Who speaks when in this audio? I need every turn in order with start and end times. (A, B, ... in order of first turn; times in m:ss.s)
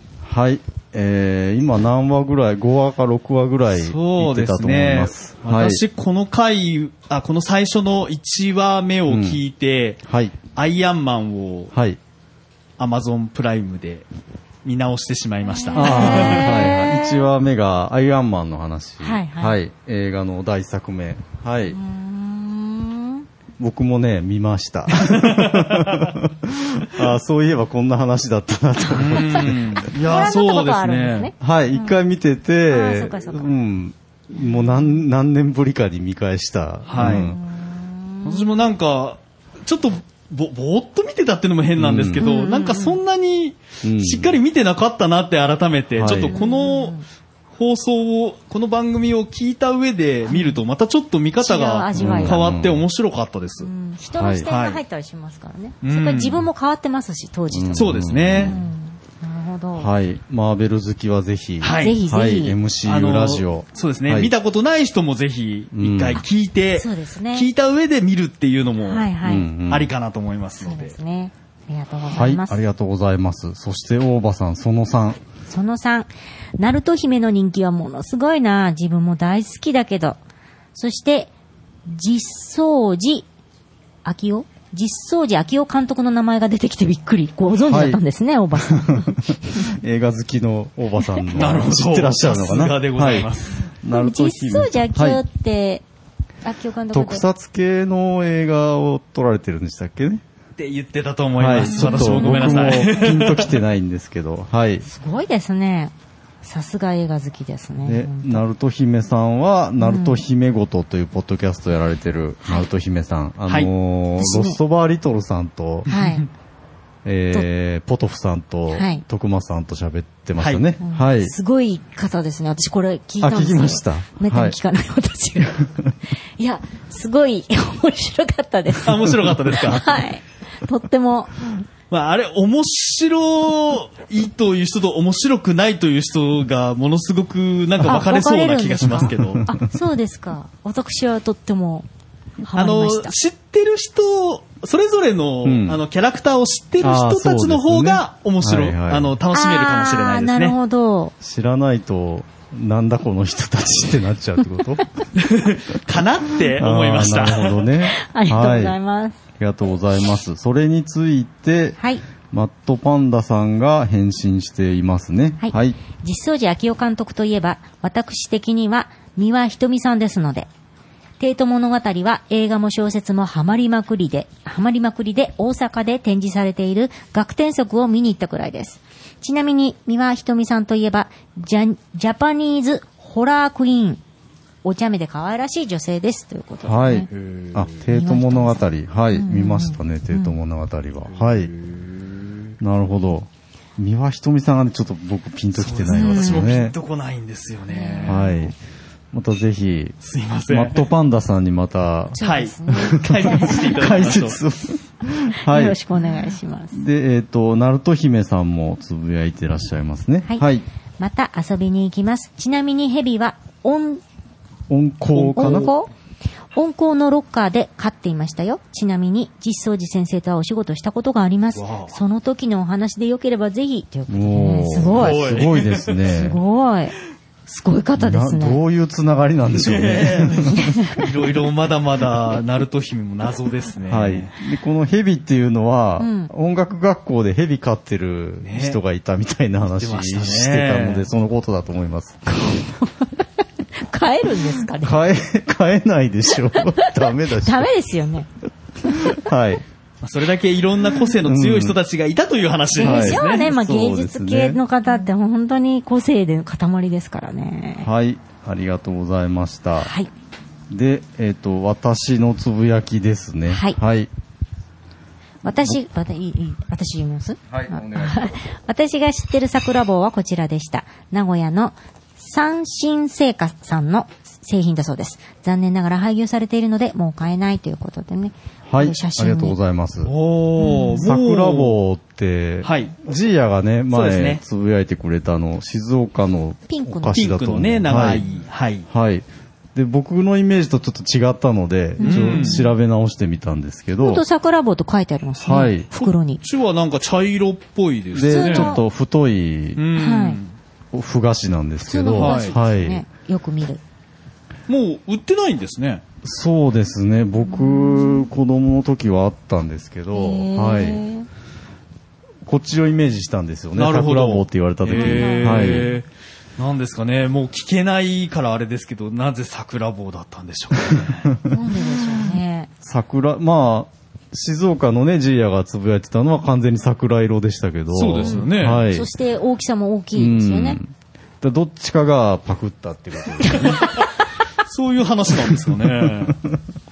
0:00.2-0:05.8 A
0:03.7-0:10.0 B
0:09.1-0:09.4 A
0:10.1-0:10.4 A
0:10.5-0:11.7 B
0:11.7-0:12.0 A
0:12.8-0:14.0 B
0:14.6-0:16.7 B
0:15.4-0:17.2 C
0:15.8-0:21.8 A
0:19.0-0:19.6 C
0:21.7-0:23.3 C
0:23.6-0:29.9 A
0:25.0-0:26.0 B
0:28.9-0:31.3 B
0:29.2-0:32.0 C
0:31.4-0:37.4 A
0:32.7-0:33.5 C
0:34.4-0:35.0 C
0:36.9-0:37.3 B
0:37.0-0:38.5 C
0:38.2-0:47.0 B
0:41.8-0:42.2 A
0:42.2-0:43.0 C
0:43.8-0:44.4 A
0:46.0-0:46.4 A
0:46.1-0:47.0 C
0:47.6-0:53.7 B
0:50.3-0:50.6 C
0:51.4-0:52.4 C
0:52.0-0:52.8 A
0:53.6-0:59.9 C
0:54.2-0:54.5 A
0:54.5-0:54.8 B
0:55.8-0:56.5 B
0:57.5-0:58.6 A
0:57.7-0:58.6 B
0:59.8-1:04.3 A
1:01.6-1:02.0 B
1:01.8-1:02.6 C
1:02.9-1:09.1 B
1:05.7-1:06.2 A
1:06.8-1:07.5 C
1:08.8-1:09.5 C
1:09.2-1:09.9 A
1:09.7-1:11.0 B
1:10.6-1:12.6 C
1:12.1-1:15.2 A
1:15.5-1:20.2 C
1:20.8-1:21.3 C
1:21.9-1:23.3 C
1:24.0-1:29.6 C
1:27.6-1:28.0 A
1:28.6-1:33.3 A
1:31.3-1:33.6 B
1:33.8-1:35.2 A
1:33.9-1:35.8 C
1:36.4-1:37.2 C
1:36.9-1:40.2 A
1:40.6-1:43.6 B
1:41.4-1:44.9 A
1:41.7-1:42.5 C
1:44.8-1:48.4 C
1:47.9-1:55.9 A
1:49.8-1:50.2 C
1:54.2-1:54.6 C
1:55.9-1:56.3 C
1:55.9-1:56.3 B
1:57.0-2:01.3 A
1:58.7-1:59.0 C
2:00.4-2:00.7 B
2:00.8-2:05.7 C
2:03.2-2:04.6 A
2:06.4-2:11.6 C
2:08.9-2:09.9 B
2:11.9-2:19.4 B
2:17.8-2:21.9 C
2:19.1-2:19.6 A
2:22.4-2:23.2 C
2:22.6-2:30.6 B
2:25.4-2:25.8 A
2:26.8-2:29.2 A
2:29.3-2:31.1 C
2:31.2-2:34.8 A
2:35.2-2:37.7 B
2:36.4-2:38.8 A
2:38.0-2:39.2 C
2:39.4-2:41.8 A
2:42.3-2:45.8 A
2:45.4-2:50.5 C
2:51.2-3:04.0 C
3:04.6-3:07.1 C
3:06.6-3:11.5 A
3:07.1-3:07.7 B
3:07.9-3:10.4 C
3:11.2-3:12.0 B
3:12.6-3:16.8 A
3:15.6-3:18.2 B
3:15.9-3:16.6 C
3:17.7-3:18.5 C
3:18.0-3:18.5 A
3:19.1-3:20.0 A
3:20.0-3:20.9 B
3:20.5-3:22.2 A
3:22.2-3:24.0 C
3:22.2-3:24.4 B
3:22.7-3:25.8 A
3:25.1-3:26.8 C
3:26.7-3:30.6 A
3:31.0-3:34.0 C
3:34.7-3:35.7 A
3:35.1-3:35.7 B
3:35.4-3:35.9 C
3:36.5-3:45.3 C
3:41.6-3:41.9 B
3:44.1-3:46.4 A
3:44.9-3:46.0 B
3:46.1-3:47.0 C
3:47.5-3:48.6 C
3:48.0-3:50.8 A
3:49.5-3:54.3 B
3:50.5-3:51.0 C
3:53.9-4:02.2 A
3:56.0-3:56.3 C
3:58.4-3:58.8 B
3:59.7-4:01.1 B
4:02.3-4:03.2 C
4:03.8-4:05.0 C
4:04.8-4:07.7 A
4:06.5-4:08.3 C
4:08.9-4:09.6 A
4:10.0-4:13.5 B
4:11.2-4:11.8 A
4:12.8-4:17.9 C
4:12.8-4:14.6 A
4:17.8-4:19.9 A
4:19.8-4:20.1 C
4:20.7-4:24.1 A
4:23.5-4:23.8 C
4:25.4-4:39.6 C
4:25.4-4:25.8 A
4:27.5-4:28.3 A
4:38.7-4:40.1 A
4:40.1-4:41.8 B
4:40.6-4:41.0 C
4:41.0-4:48.2 A
4:42.6-4:43.0 B
4:43.9-4:44.4 B
4:46.7-4:47.2 C
4:47.1-4:48.9 B
4:48.9-4:54.2 A
4:52.0-4:52.7 C
4:52.0-4:52.6 B
4:54.0-4:56.4 C
4:55.4-4:55.9 A
4:56.0-4:58.8 B
4:58.1-4:59.8 A
4:58.3-4:58.8 C
4:59.8-5:00.5 B
5:00.0-5:00.4 C
5:00.9-5:03.0 A
5:01.8-5:03.8 C
5:02.2-5:02.6 B
5:04.7-5:06.0 B
5:06.2-5:11.0 A
5:07.5-5:08.3 C
5:10.1-5:11.3 C
5:12.4-5:15.9 A
5:13.8-5:16.0 B
5:14.9-5:15.9 C
5:16.6-5:21.3 B
5:21.5-5:22.7 C
5:22.8-5:29.1 A
5:27.9-5:28.8 B
5:28.2-5:30.8 C
5:30.2-5:33.8 A
5:33.4-5:34.0 C
5:34.7-5:36.4 B
5:36.0-5:36.6 A